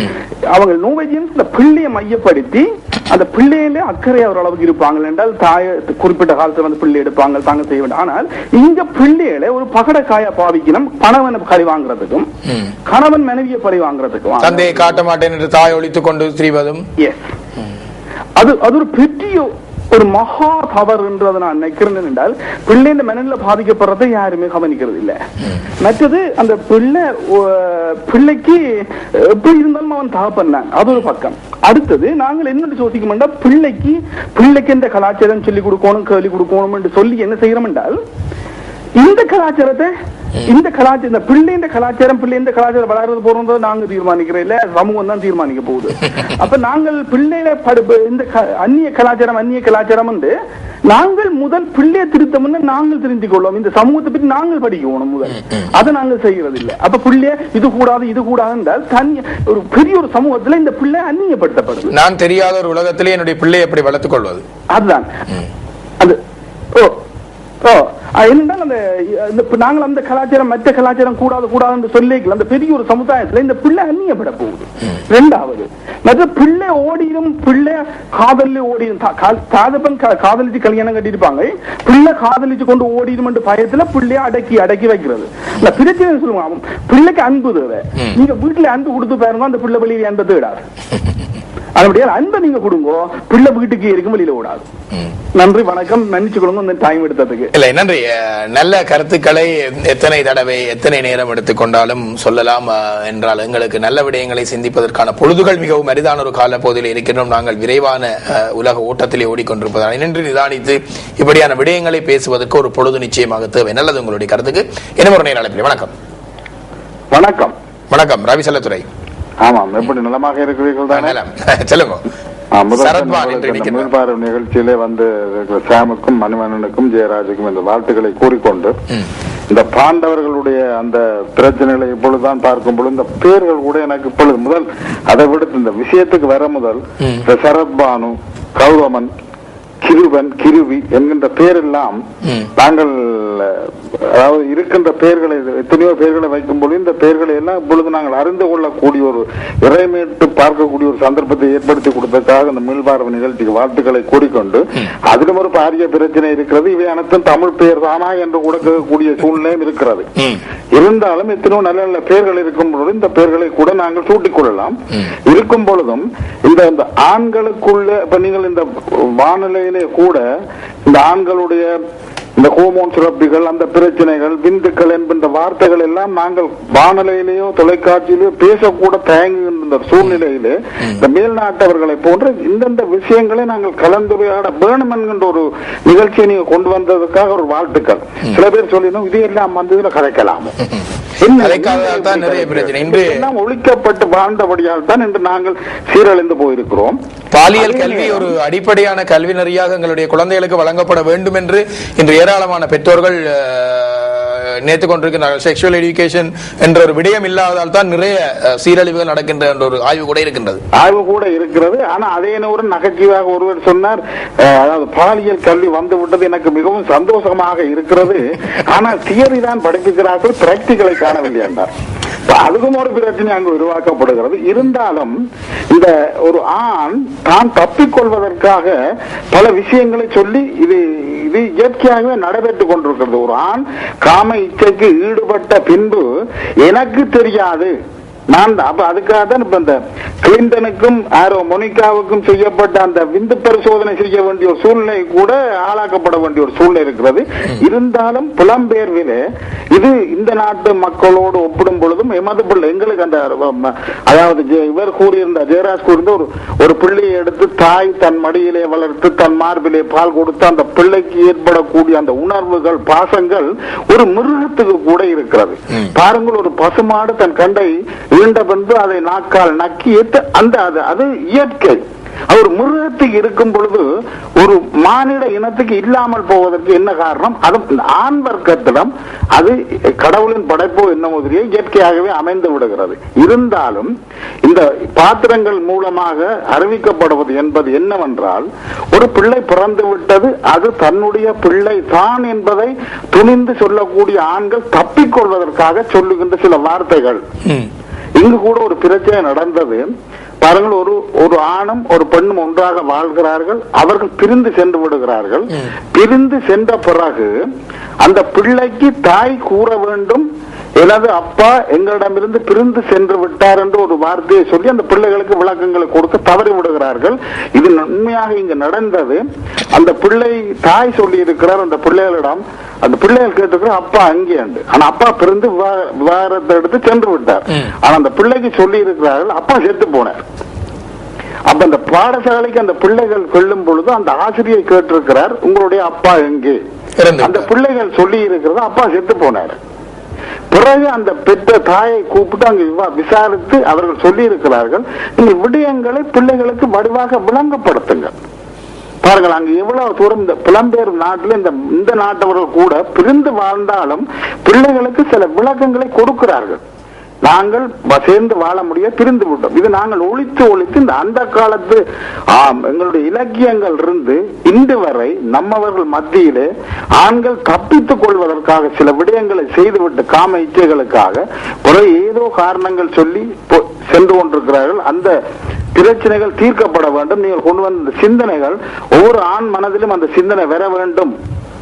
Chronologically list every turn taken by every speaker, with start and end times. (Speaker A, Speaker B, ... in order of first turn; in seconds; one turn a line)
Speaker A: 0.5-12.3
Speaker A: 12.9-15.0
Speaker B: 14.4-16.9
Speaker A: 17.0-17.3
Speaker A: 18.4-25.2
Speaker A: 25.8-38.0
Speaker A: 39.0-39.9
Speaker A: 40.4-50.3
Speaker A: 50.9-61.9
Speaker B: 61.9-64.4
Speaker A: 64.7-65.1
Speaker A: 67.6-90.6
Speaker A: 91.8-94.7
Speaker A: 95.3-97.5
Speaker B: 97.5-115.9
Speaker C: 117.1-117.5
Speaker B: 117.9-118.9
Speaker C: 119.4-121.2
Speaker B: 120.9-122.1
Speaker C: 122.5-128.8
Speaker B: 122.7-123.9
Speaker C: 129.5-139.1
Speaker B: 137.0-137.3
Speaker C: 139.8-142.0
Speaker B: 142.2-142.5
Speaker C: 142.6-143.6
Speaker C: 144.1-160.1
Speaker B: 160.2-160.4
Speaker C: 160.7-170.2
Speaker C: 170.9-171.7
Speaker C: 172.4-190.5
Speaker B: 190.6-193.2
Speaker C: 191.2-197.0
Speaker B: 197.3-210.6
Speaker C: 197.5-198.3
Speaker C: 210.7-221.7
Speaker C: 222.3-225.2
Speaker C: 225.7-228.8
Speaker C: 229.3-236.1
Speaker C: 236.6-237.7
Speaker C: 238.3-273.9
Speaker C: 274.4-283.9
Speaker C: 284.4-297.2
Speaker C: 298.2-299.9
Speaker C: 300.4-307.3
Speaker C: 308.0-310.2
Speaker C: 310.8-330.2
Speaker C: 331.5-336.6
Speaker B: 337.0-337.5
Speaker C: 337.2-339.6
Speaker C: 340.5-348.1
Speaker C: 349.0-356.6
Speaker C: 357.2-361.8
Speaker C: 362.3-375.2
Speaker C: 375.8-381.1